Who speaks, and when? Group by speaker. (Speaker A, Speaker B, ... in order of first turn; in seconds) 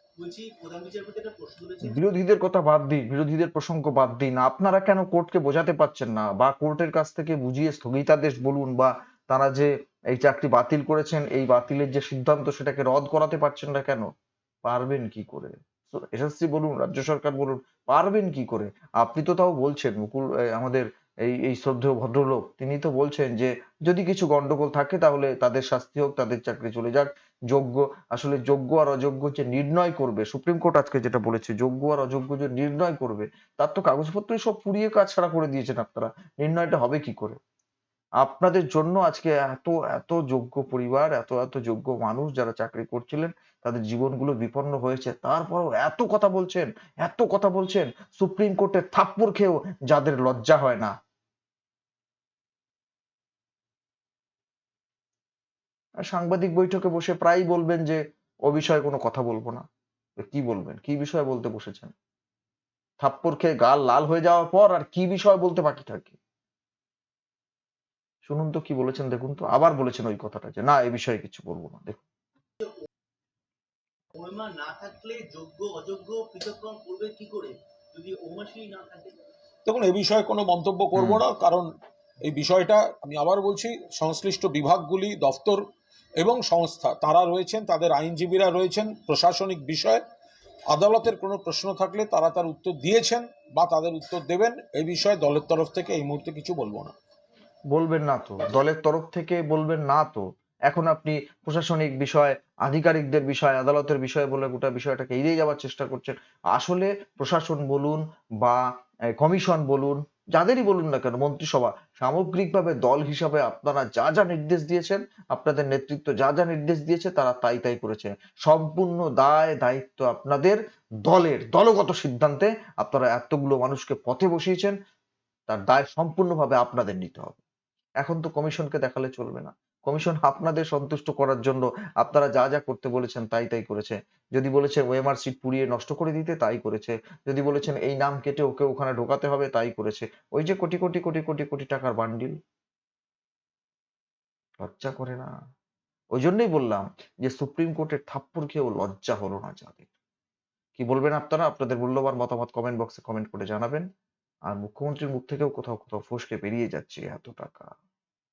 Speaker A: 0.2-2.0, 74.1-79.1
Speaker B: 1.8-14.1, 14.6-37.4, 38.2-50.9, 56.0-59.6, 60.2-61.9, 63.0-66.2, 68.2-72.0, 81.0-81.2, 97.7-108.6, 109.2-124.7, 125.5-127.4, 128.0-142.3, 144.6-145.3, 146.2-149.9, 150.8-153.8, 154.5-157.7
Speaker C: 79.7-81.7, 82.2-85.6, 86.2-90.0, 90.7-96.9